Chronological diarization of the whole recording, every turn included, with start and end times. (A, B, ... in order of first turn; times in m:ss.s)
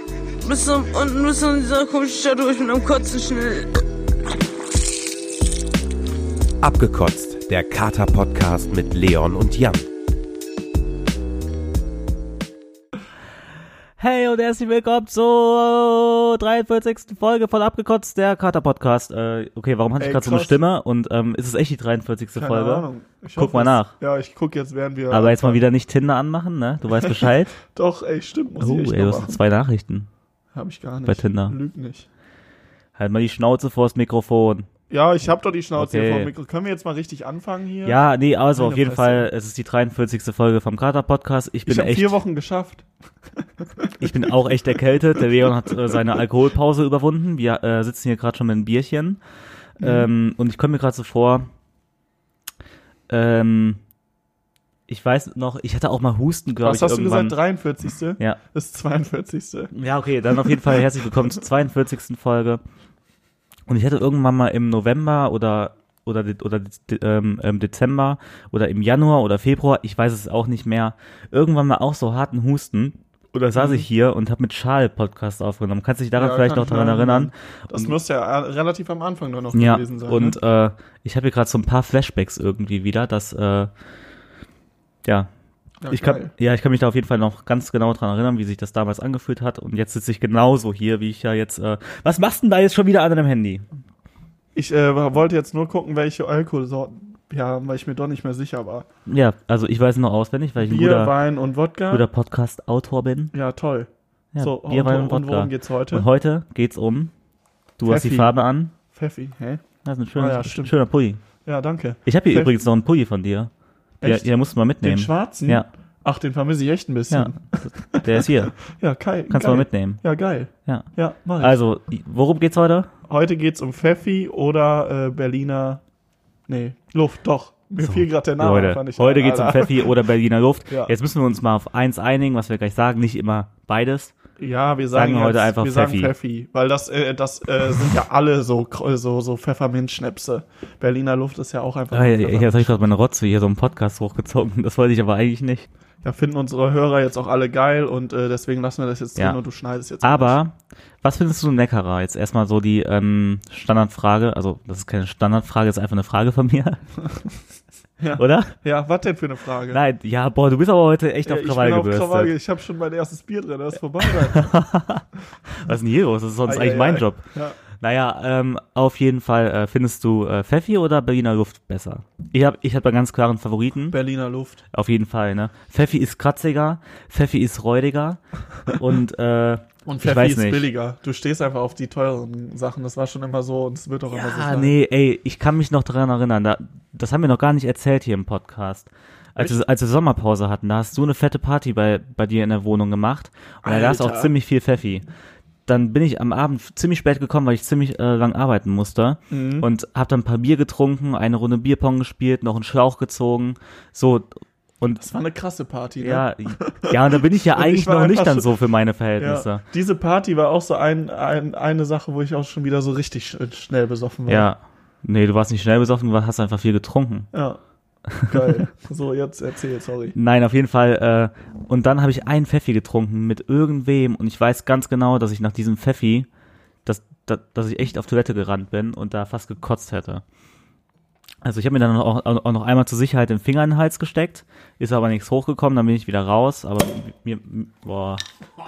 0:00.4-0:03.8 A
0:06.6-0:09.8 B
0:14.0-0:23.9 C
0:20.0-0:20.5 D
0:22.3-0:25.6 D
0:25.1-0:27.6 C
0:27.0-0:29.4 D
0:28.6-0:30.1 C
0:30.5-0:32.1 D
0:31.0-0:31.6 C
0:33.0-0:34.7 C
0:34.9-0:38.0 D
0:35.7-0:36.3 C
0:37.8-0:42.2 C
0:38.5-0:39.3 D
0:41.6-0:42.8 D
0:44.0-0:49.2 C
0:49.8-0:51.5 C
0:49.8-0:50.1 D
0:53.1-0:53.8 C
0:54.9-0:57.4 C
0:56.6-0:59.7 D
0:59.7-1:02.6 C
1:00.4-1:00.8 D
1:03.7-1:17.9 C
1:13.6-1:13.8 D
1:16.1-1:20.4 D
1:19.5-1:23.7 C
1:25.8-1:26.3 D
1:25.9-1:33.7 C
1:34.5-1:38.9 D
1:39.1-1:41.1 C
1:40.6-1:42.0 D
1:41.9-1:43.3 C
1:43.3-1:46.1 D
1:44.3-1:47.1 C
1:47.8-1:48.7 C
1:47.8-1:49.6 D
1:49.8-1:51.2 C
1:50.2-1:50.8 D
1:51.4-1:52.5 D
1:52.0-1:55.7 C
1:54.0-1:54.3 D
1:54.8-2:01.6 D
1:57.1-1:58.6 C
1:59.3-2:00.0 C
2:01.4-2:02.9 C
2:03.1-2:05.8 D
2:06.5-2:09.9 D
2:07.8-2:14.1 C
2:10.7-2:10.9 D
2:14.4-2:22.8 D
2:14.9-2:16.1 C
2:21.9-2:25.7 C
2:26.0-2:30.4 D
2:30.0-2:36.8 C
2:38.0-2:39.8 D
2:38.2-2:38.6 C
2:39.7-2:42.3 C
2:41.2-2:44.5 D
2:44.1-2:47.2 C
2:46.4-2:47.6 D
2:47.8-2:54.0 C
2:53.9-2:54.6 D
2:54.7-3:00.7 C
2:59.8-3:04.7 D
3:04.1-3:15.0 C
3:13.6-3:14.3 D
3:15.6-3:24.3 C
3:19.3-3:19.7 D
3:25.0-3:28.5 D
3:26.0-3:29.6 C
3:29.2-3:34.5 D
3:34.3-3:37.3 C
3:37.3-3:37.6 D
3:38.1-3:38.6 C
3:38.2-3:40.1 D
3:40.1-3:46.3 C
3:46.8-3:50.2 C
3:51.4-3:58.2 C